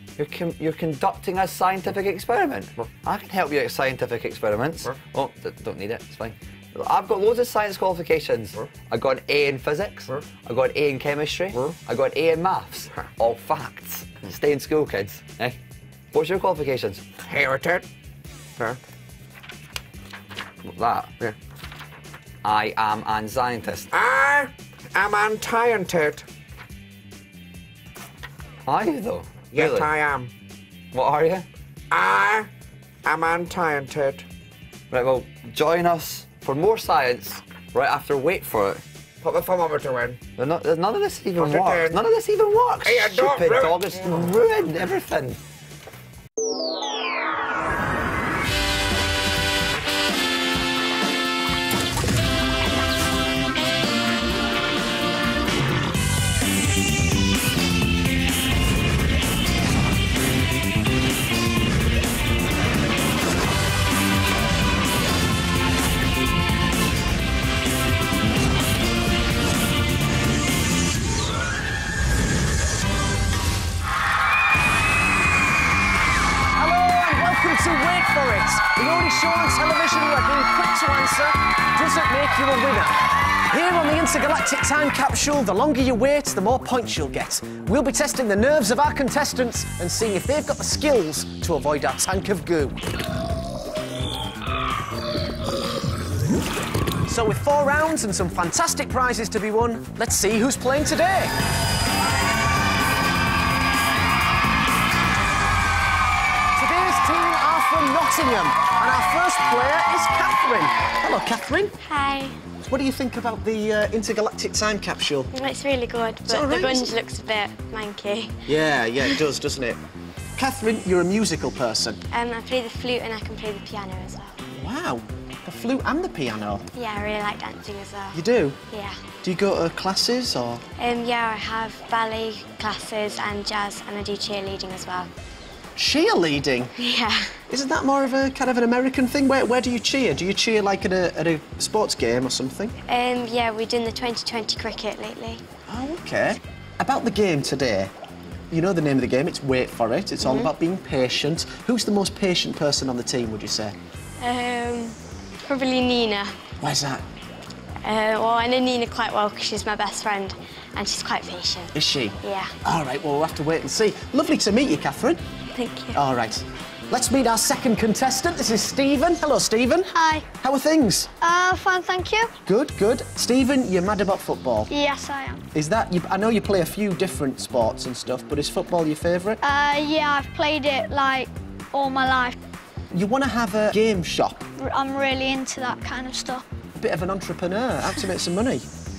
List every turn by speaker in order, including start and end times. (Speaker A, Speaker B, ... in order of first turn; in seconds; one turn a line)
Speaker A: 0.2-15.6
Speaker A: 16.1-17.1
Speaker B: 17.2-17.9
Speaker A: 20.6-21.1
Speaker A: 22.4-23.9
Speaker B: 23.9-26.3
Speaker A: 28.7-29.9
Speaker B: 29.5-30.3
Speaker A: 30.9-31.5
Speaker B: 31.9-32.5
Speaker B: 33.0-34.2
Speaker A: 34.9-38.8
Speaker B: 39.2-40.2
Speaker A: 40.4-45.4
Speaker B: 41.4-42.0
Speaker B: 42.9-44.3
Speaker C: 76.5-92.8
Speaker C: 97.1-101.3
Speaker C: 106.6-111.8
Speaker D: 111.8-112.4
Speaker C: 112.7-115.3
Speaker D: 115.3-118.5
Speaker C: 116.3-116.9
Speaker C: 118.5-119.8
Speaker C: 120.4-122.0
Speaker D: 122.1-124.4
Speaker C: 124.5-126.7
Speaker D: 126.7-129.0
Speaker C: 128.1-128.6
Speaker C: 129.2-130.6
Speaker D: 130.8-135.1
Speaker C: 135.8-136.7
Speaker D: 136.8-137.4
Speaker C: 137.5-142.8
Speaker D: 142.9-145.4
Speaker C: 145.7-147.9
Speaker C: 148.5-153.8
Speaker D: 150.2-150.5
Speaker D: 154.2-156.4
Speaker C: 156.6-157.0
Speaker D: 157.8-162.5
Speaker C: 161.7-165.2
Speaker D: 165.5-166.0
Speaker C: 165.9-171.1
Speaker E: 169.9-170.3
Speaker E: 171.2-172.3
Speaker C: 172.5-174.7
Speaker E: 174.7-175.4
Speaker C: 175.5-179.4
Speaker E: 179.4-182.4
Speaker C: 182.9-184.4
Speaker E: 184.6-186.4
Speaker C: 186.8-188.7